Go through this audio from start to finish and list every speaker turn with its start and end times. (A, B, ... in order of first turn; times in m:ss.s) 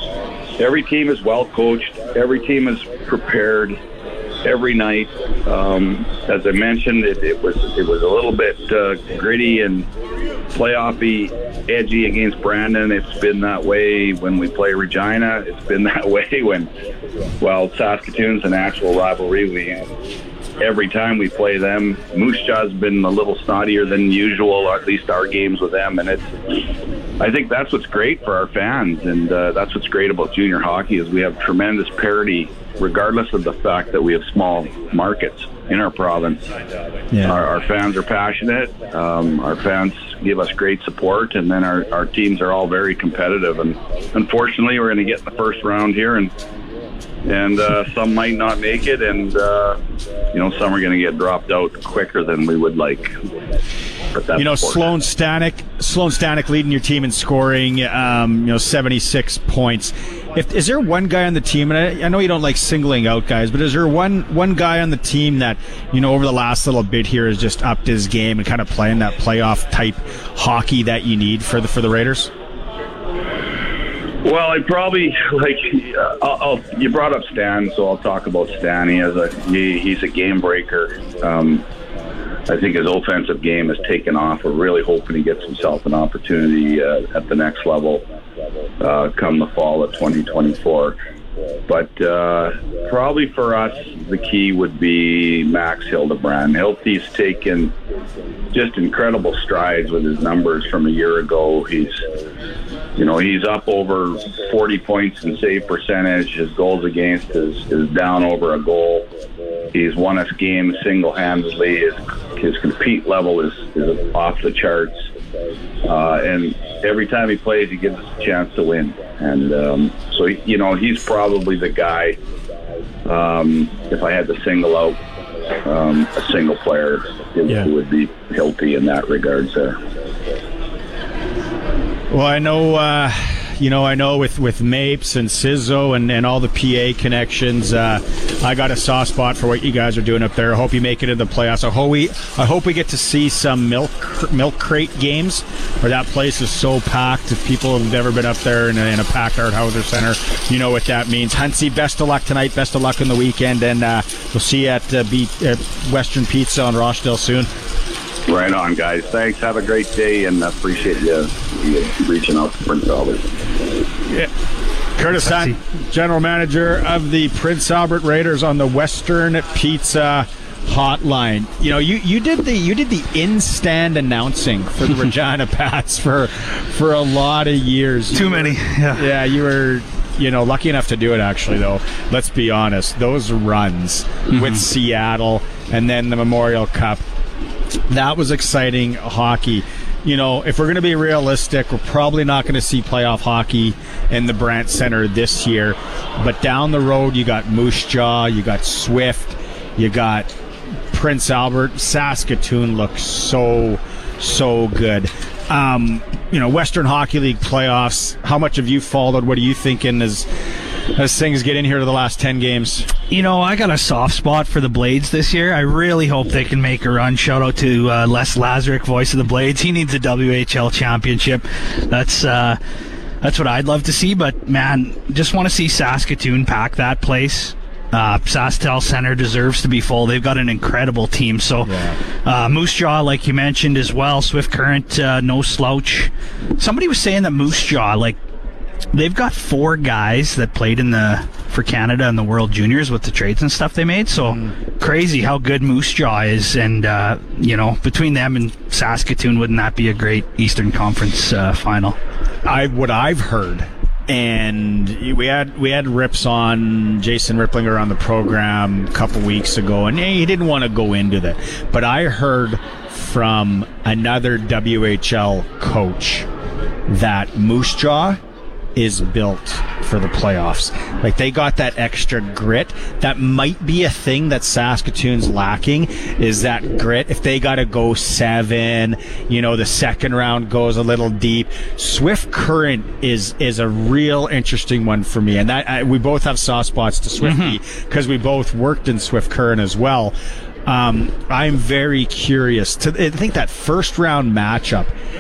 0:00.6-0:03.8 A
0:04.4-0:09.9 A
0:10.5-0:16.7 A
0:17.4-0:19.8 A
0:20.6-0:26.7 A
0:27.2-0:36.4 A
0:37.1-0:37.4 B
0:37.2-0:46.3 A
0:47.2-0:49.8 A
0:50.3-0:53.1 A
0:54.1-0:54.9 A
0:54.4-1:12.3 B
1:14.2-1:21.6 A
1:22.5-1:28.0 A
1:28.8-1:31.0 A
1:31.7-1:37.7 A
1:38.5-1:42.0 A
1:43.0-1:49.1 A
1:49.7-1:55.0 A
1:55.8-2:02.2 A
2:03.0-2:05.0 A
2:05.6-2:09.8 A
2:12.1-2:37.5 B
2:38.3-2:43.2 A
2:45.0-3:07.0 B
2:58.1-2:59.0 C
3:07.9-3:20.3 B
3:20.9-3:30.3 B
3:30.9-3:32.9 B
3:33.1-3:42.6 C
3:43.2-3:58.2 C
3:51.6-3:52.0 B
3:58.9-4:12.0 C
4:12.4-4:26.3 B
4:26.9-4:28.2 B
4:28.8-4:50.1 B
4:47.2-4:47.6 C
4:50.6-4:54.9 B